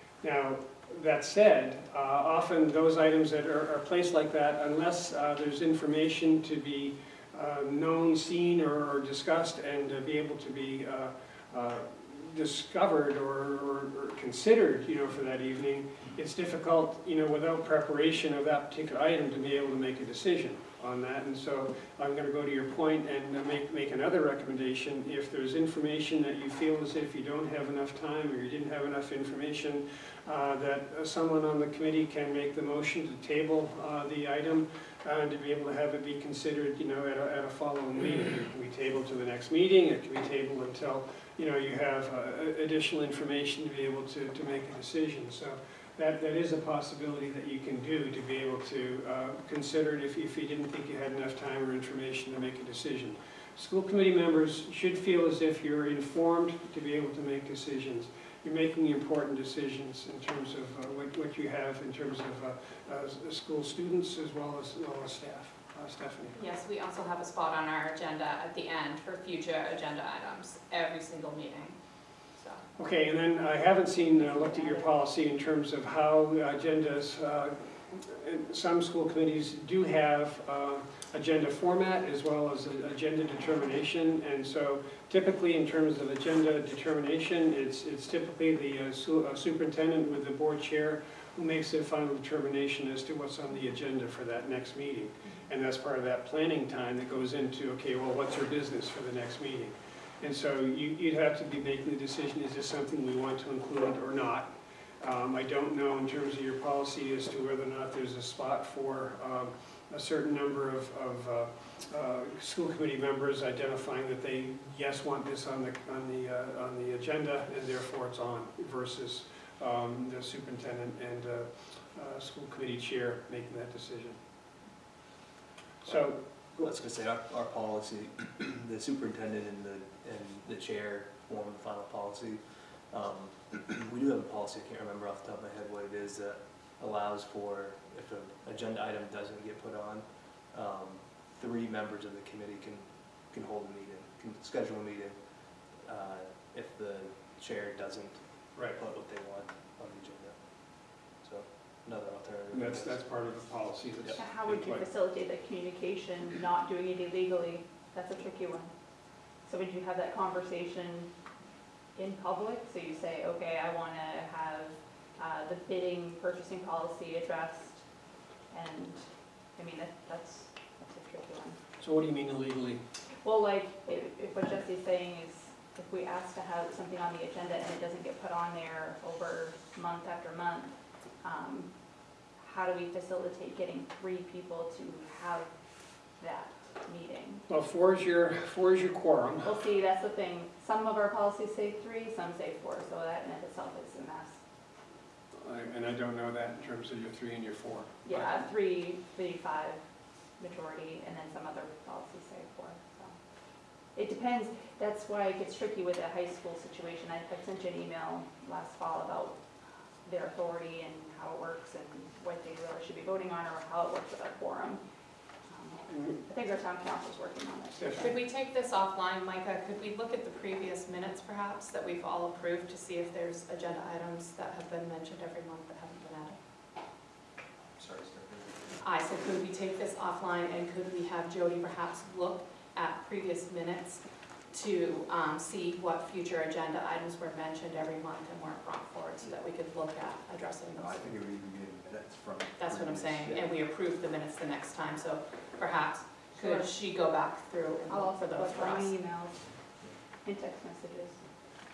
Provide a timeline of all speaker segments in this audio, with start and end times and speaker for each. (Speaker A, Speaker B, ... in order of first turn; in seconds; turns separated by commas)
Speaker A: 0.2-66.4, Speaker B: 66.3-71.8, Speaker B: 72.3-72.6, Speaker A: 72.8-104.5, Speaker C: 74.1-75.0, Speaker A: 105.0-124.2, Speaker A: 125.8-126.7, Speaker D: 126.6-153.1, Speaker A: 148.5-148.8, Speaker A: 152.5-154.9, Speaker C: 154.2-158.7, Speaker C: 159.4-161.1, Speaker C: 161.9-167.8, Speaker C: 168.5-171.6, Speaker A: 171.8-172.8, Speaker C: 173.2-181.7, Speaker C: 182.4-185.5, Speaker C: 186.2-187.4, Speaker A: 187.5-189.5, Speaker C: 189.4-194.4, Speaker A: 195.4-198.3, Speaker C: 198.0-199.8, Speaker C: 200.4-203.2, Speaker C: 203.9-209.4, Speaker C: 210.0-214.8, Speaker C: 215.5-218.1, Speaker A: 215.9-216.2, Speaker A: 217.8-218.1, Speaker B: 218.0-226.4, Speaker E: 227.8-228.8, Speaker B: 228.8-241.1, Speaker E: 240.7-243.5, Speaker B: 242.6-248.9, Speaker C: 246.3-246.7, Speaker C: 247.9-249.4, Speaker C: 250.2-251.2